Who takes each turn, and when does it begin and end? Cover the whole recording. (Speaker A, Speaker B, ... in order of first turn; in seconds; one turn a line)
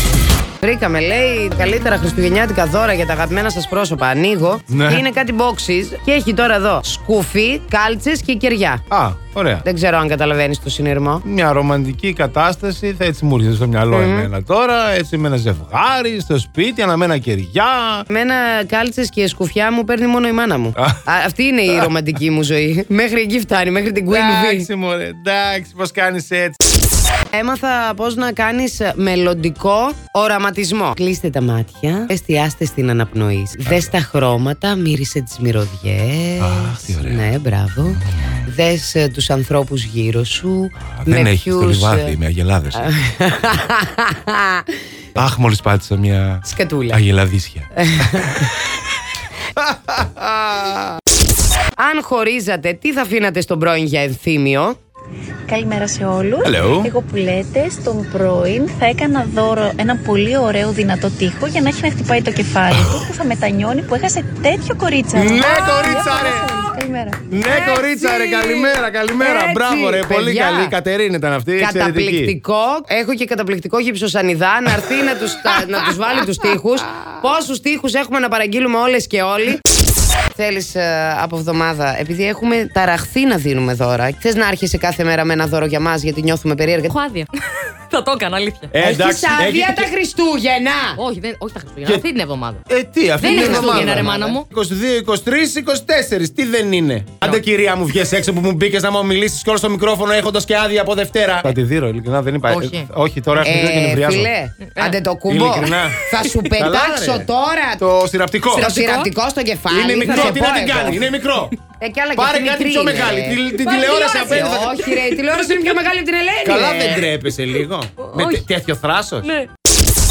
Speaker A: 0.6-8.8
Speaker B: 4.7-5.0
Speaker B: 8.9-9.6
Speaker A: 9.6-11.2
Speaker B: 11.2-18.1
Speaker A: 13.9-14.3
Speaker A: 18.1-24.7
Speaker B: 20.8-21.0
Speaker B: 24.1-26.6
Speaker A: 27.3-42.1
Speaker B: 33.6-33.9
Speaker B: 36.4-37.3
Speaker B: 37.9-38.4
Speaker B: 41.0-42.8
Speaker A: 42.7-44.7
Speaker B: 45.1-48.5
Speaker A: 46.4-47.0
Speaker A: 47.8-48.5
Speaker B: 49.5-50.8
Speaker A: 51.8-54.8
Speaker C: 55.5-67.2
Speaker B: 56.4-56.9
Speaker B: 62.7-63.0
Speaker B: 65.1-66.5
Speaker B: 67.3-72.3
Speaker A: 67.5-70.8
Speaker A: 71.6-79.6
Speaker A: 80.3-87.0
Speaker D: 86.9-87.3
Speaker D: 87.9-88.7
Speaker B: 88.7-89.9
Speaker A: 88.8-91.0
Speaker D: 91.0-92.6
Speaker B: 92.7-104.3
Speaker D: 93.2-94.4
Speaker A: 93.2-94.3
Speaker D: 102.5-102.9
Speaker A: 103.4-107.8
Speaker B: 105.3-106.0
Speaker B: 106.5-107.3
Speaker B: 107.8-108.7
Speaker A: 108.5-111.0
Speaker D: 108.5-109.1
Speaker B: 109.7-111.5
Speaker D: 110.0-110.4
Speaker A: 111.8-117.0
Speaker B: 112.1-114.9
Speaker D: 113.7-114.4
Speaker D: 115.3-115.8
Speaker B: 116.4-119.3
Speaker D: 118.1-118.4